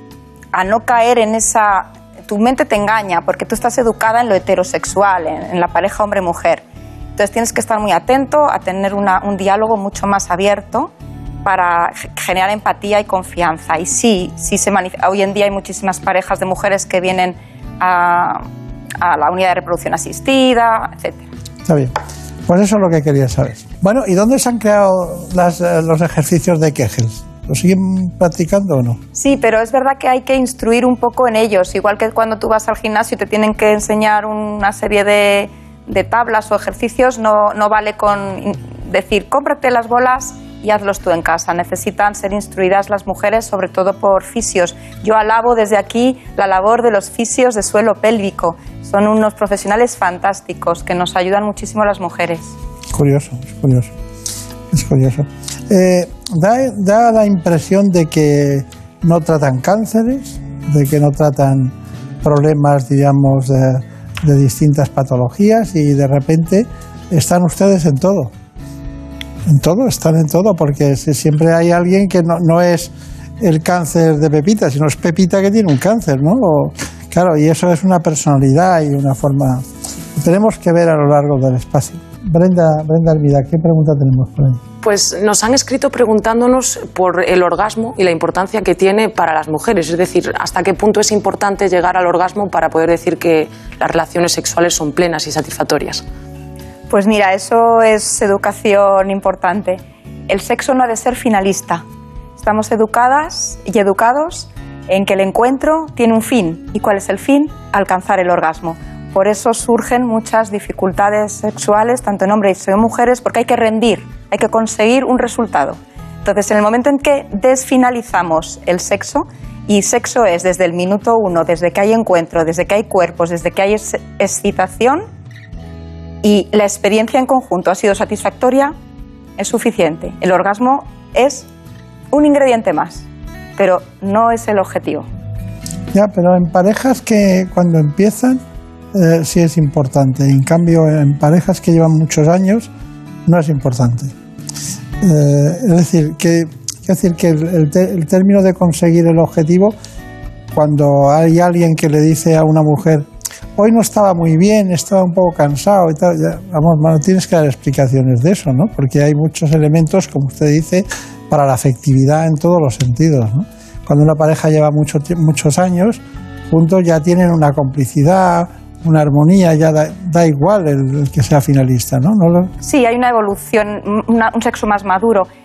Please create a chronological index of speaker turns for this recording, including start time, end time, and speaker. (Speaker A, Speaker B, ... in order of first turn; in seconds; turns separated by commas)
Speaker A: 0.5-6.6, Speaker A: 7.2-10.9, Speaker A: 11.4-18.4, Speaker A: 19.0-21.2, Speaker B: 21.7-21.9, Speaker B: 22.5-29.0, Speaker A: 29.1-52.5, Speaker B: 52.9-53.9, Speaker B: 54.7-68.3, Speaker B: 69.5-79.6, Speaker B: 80.2-84.6, Speaker C: 84.8-96.0, Speaker A: 96.9-101.8, Speaker A: 102.4-125.1, Speaker A: 126.2-128.8, Speaker A: 129.4-131.5, Speaker A: 132.1-133.1, Speaker A: 133.6-135.1, Speaker B: 135.9-138.4, Speaker B: 138.9-142.7, Speaker B: 143.3-144.1, Speaker B: 145.0-149.8, Speaker B: 150.5-172.5, Speaker A: 172.6-175.3